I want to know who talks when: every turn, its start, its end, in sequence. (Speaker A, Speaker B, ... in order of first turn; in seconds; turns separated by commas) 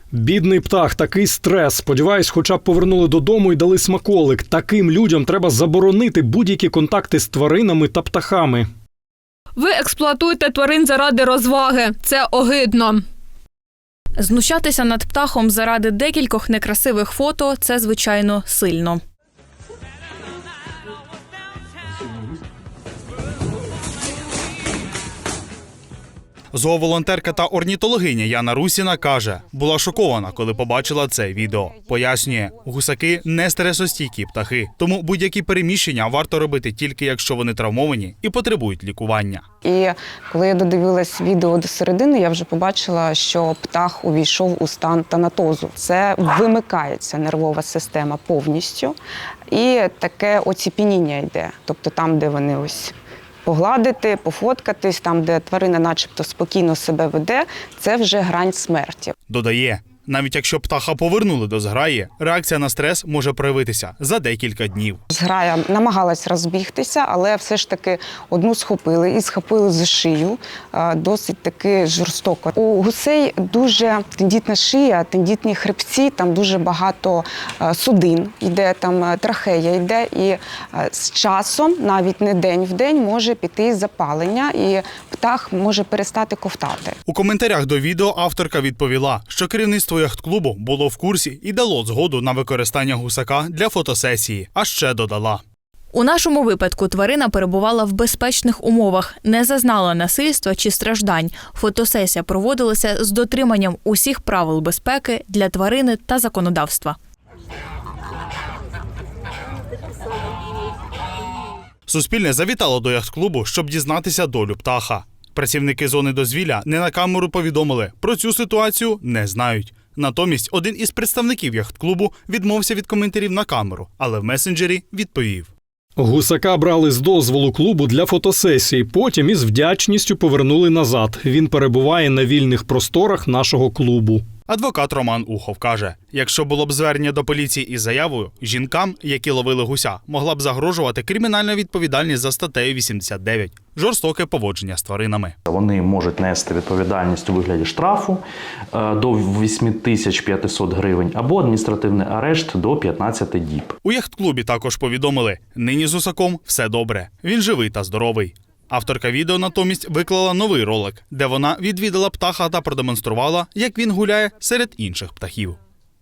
Speaker A: 0.1-8.7, Speaker B: 9.6-13.0, Speaker C: 14.2-19.0, Speaker D: 26.5-39.4, Speaker E: 39.6-49.0, Speaker E: 49.5-52.9, Speaker E: 53.5-59.1, Speaker D: 59.3-65.0, Speaker E: 65.1-87.0, Speaker D: 87.1-95.4, Speaker C: 95.9-107.0, Speaker D: 111.9-125.5, Speaker A: 126.0-134.2, Speaker D: 134.5-145.4, Speaker F: 145.5-153.8, Speaker D: 153.8-165.6